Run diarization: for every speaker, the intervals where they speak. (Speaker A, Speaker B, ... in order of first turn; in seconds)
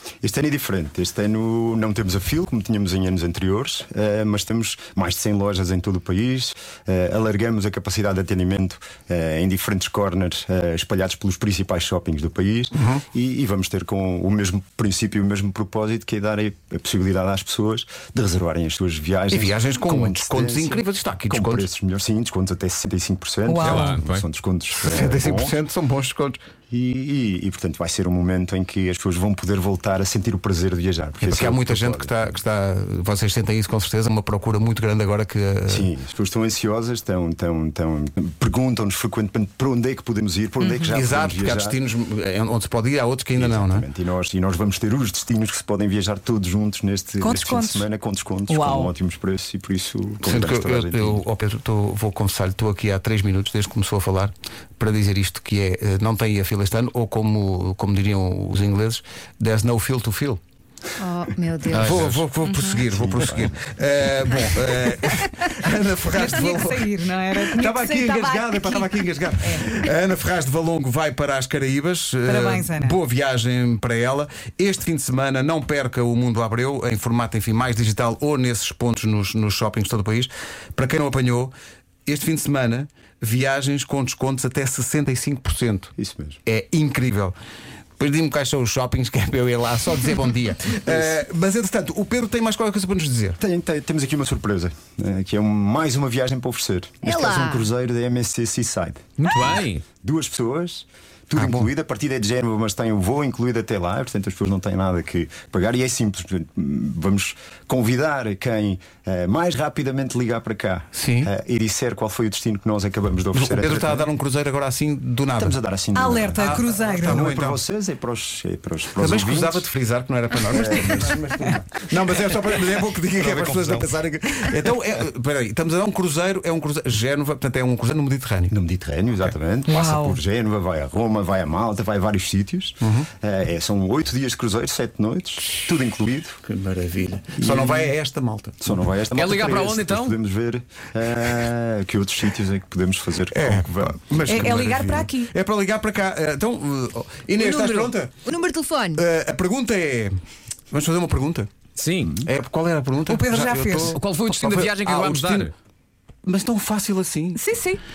Speaker A: 0.2-25.6, 26.7-32.2, 35.7-41.8, 43.4-51.2, 62.9-63.8, 86.0-86.4, 93.4-114.1, 115.4-119.7, 120.5-121.4, 123.2-123.9, 128.5-136.4, 137.4-137.9, 138.6-144.5
Speaker B: 12.8-13.0, 19.3-21.7, 24.8-26.4, 31.2-35.9, 40.9-43.9, 50.2-60.4, 61.7-66.9, 67.5-81.5, 82.1-85.9, 86.5-87.3, 88.0-93.4, 101.4-101.7, 111.0-111.3, 113.3-115.6, 116.4-117.6, 119.0-128.5, 132.8-133.1, 136.5-138.7, 143.3-148.2, 148.9-150.2, 150.7-151.5, 152.2-155.5, 156.2-157.4
Speaker C: 23.5-23.9, 40.6-40.9, 47.2-47.9, 48.5-48.9, 62.4-62.8, 66.1-69.8, 72.2-73.0, 115.9-117.3, 129.7-130.2, 144.3-145.3, 153.1-154.0, 157.3-157.8
Speaker D: 23.6-24.2, 61.7-62.2, 99.2-99.8, 139.1-140.2, 147.4-147.9, 151.8-152.2, 153.9-155.5
Speaker E: 61.0-62.1, 97.0-97.7, 148.2-149.0